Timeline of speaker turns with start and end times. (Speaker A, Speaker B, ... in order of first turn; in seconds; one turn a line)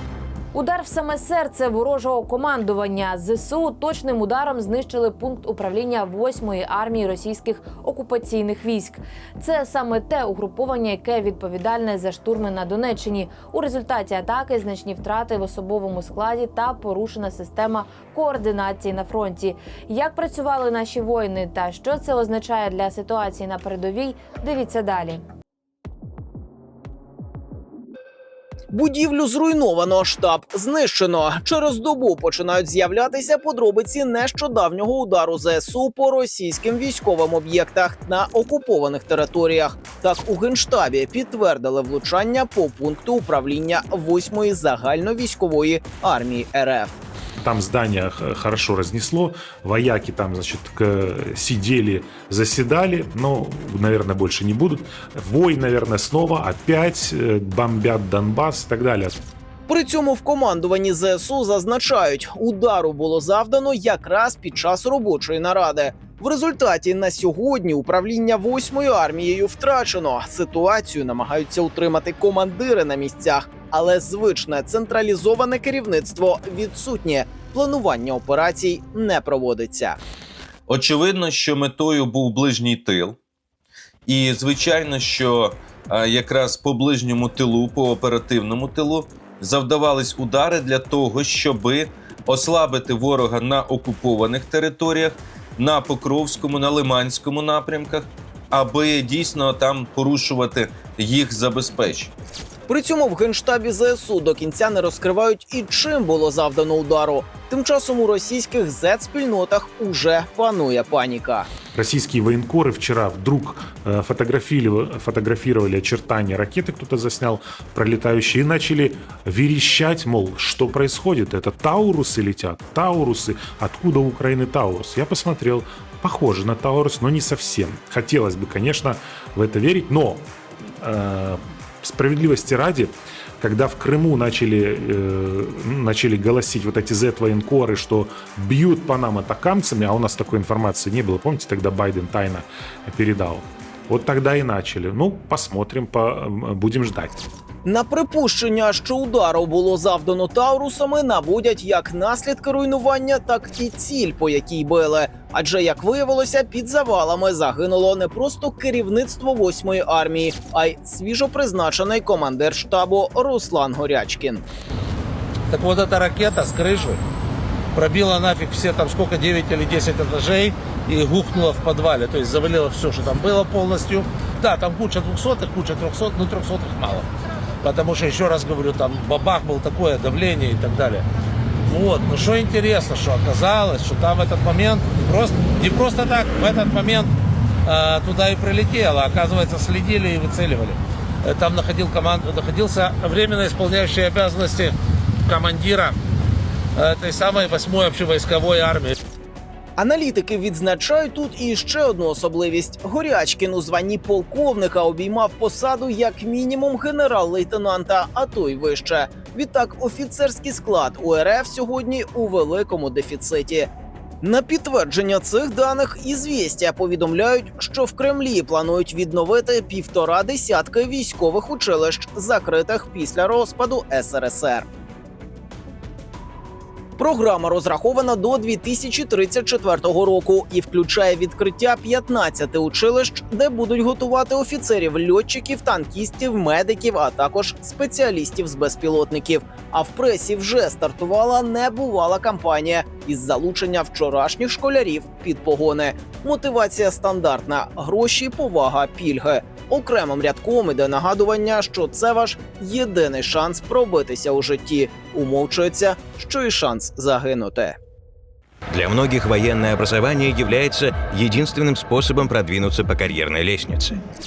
Speaker A: 0.5-25.2
Speaker B: 28.7-47.0
Speaker C: 47.4-59.1
Speaker B: 59.7-80.0
Speaker D: 80.7-83.2
Speaker D: 84.1-102.1
Speaker B: 102.7-111.5
Speaker C: 111.7-130.2
Speaker C: 130.8-147.2
Speaker B: 147.6-164.4
Speaker E: 165.5-167.0
Speaker E: 167.7-177.1
Speaker E: 177.6-181.1
Speaker E: 181.7-187.1
Speaker E: 187.6-196.0
Speaker E: 196.8-199.0
Speaker B: 199.8-213.7
Speaker B: 214.2-224.7
Speaker B: 227.0-257.8
Speaker F: 258.7-263.9